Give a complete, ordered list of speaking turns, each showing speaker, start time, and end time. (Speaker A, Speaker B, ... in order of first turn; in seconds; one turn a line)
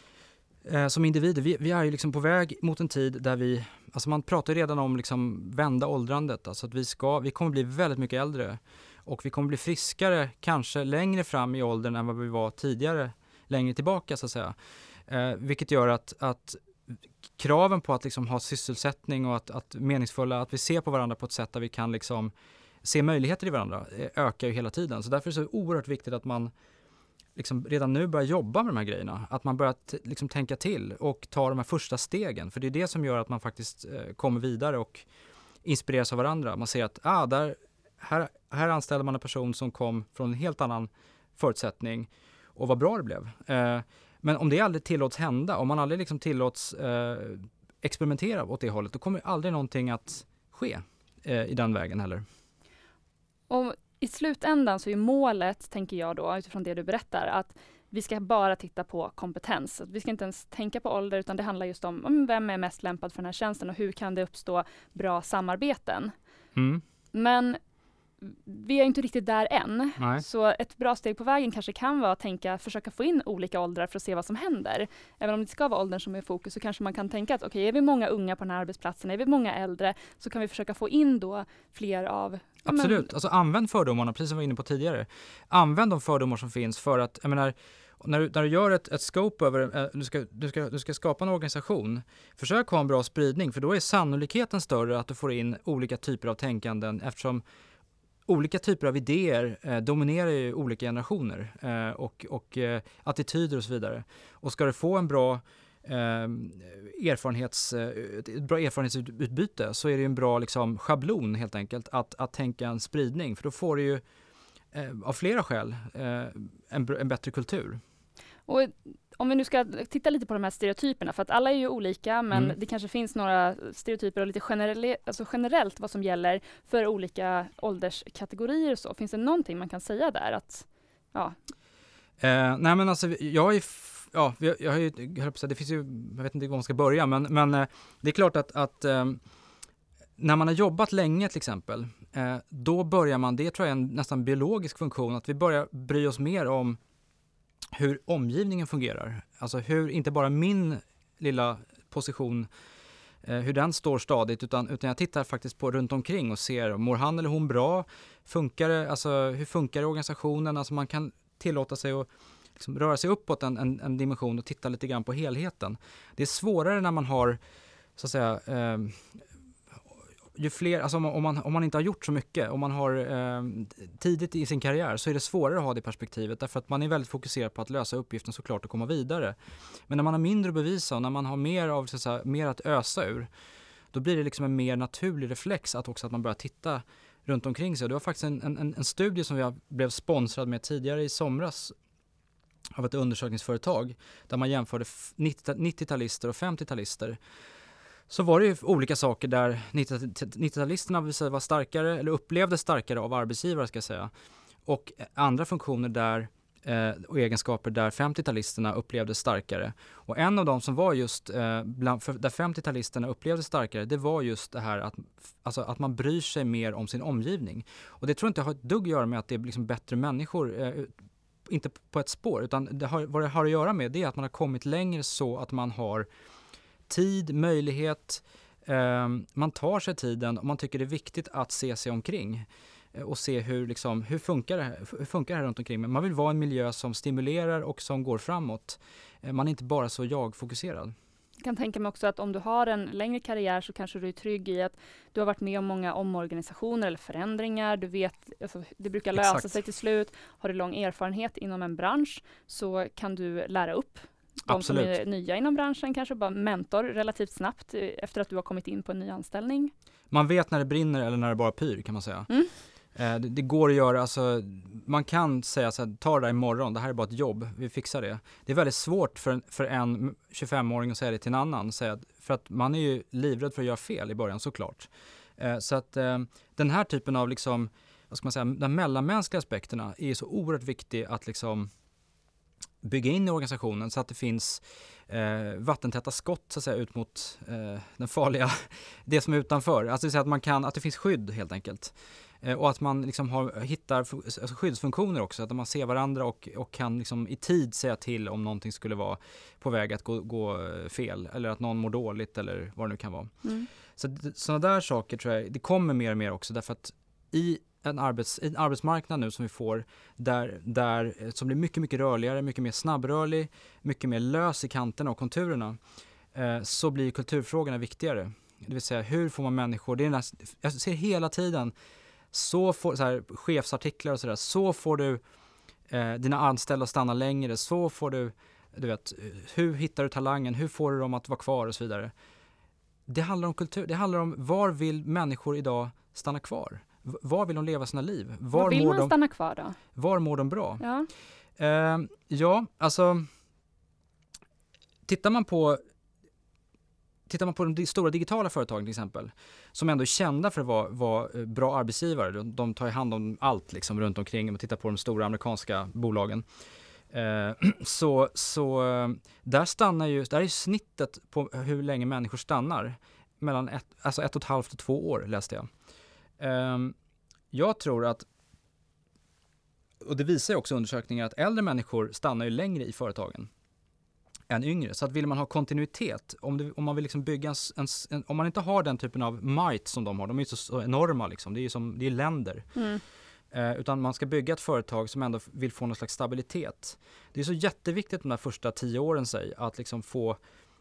Speaker A: 0.6-14.6
Speaker A: 15.1-16.6
Speaker A: 17.4-22.3
Speaker A: 22.8-26.5
Speaker A: 27.4-35.1
Speaker A: 35.6-52.2
Speaker B: 53.5-66.1
Speaker A: 66.5-66.8
Speaker B: 67.1-67.6
Speaker B: 68.2-83.1
Speaker A: 70.0-70.2
Speaker A: 82.6-97.4
Speaker A: 98.3-114.0
Speaker A: 114.7-117.8
Speaker B: 118.5-131.3
Speaker A: 132.2-139.2
Speaker A: 140.2-146.8
Speaker A: 147.7-152.5
Speaker A: 153.2-167.4
Speaker A: 168.0-169.2
Speaker A: 170.3-179.3
Speaker A: 179.9-183.3
Speaker A: 183.9-191.7
Speaker A: 192.7-197.2
Speaker A: 198.1-204.1
Speaker A: 204.7-220.9
Speaker A: 221.4-226.1
Speaker A: 226.9-240.9
Speaker B: 241.4-259.7
Speaker A: 249.1-249.6
Speaker A: 254.5-255.0
Speaker A: 260.1-262.3
Speaker A: 262.9-281.7
Speaker A: 282.8-303.3
Speaker B: 303.4-303.7
Speaker A: 303.9-315.8
Speaker A: 316.3-321.7
Speaker A: 322.3-325.2
Speaker A: 325.9-332.1
Speaker A: 333.1-339.1
Speaker B: 338.5-339.8
Speaker A: 339.9-340.8
Speaker B: 340.8-341.1
Speaker A: 341.6-343.3
Speaker A: 345.1-345.8
Speaker A: 347.3-356.4
Speaker A: 357.1-365.7
Speaker A: 366.4-366.9
Speaker A: 367.5-368.2
Speaker A: 370.0-373.5
Speaker A: 374.5-382.7
Speaker B: 382.8-383.0
Speaker A: 383.5-390.4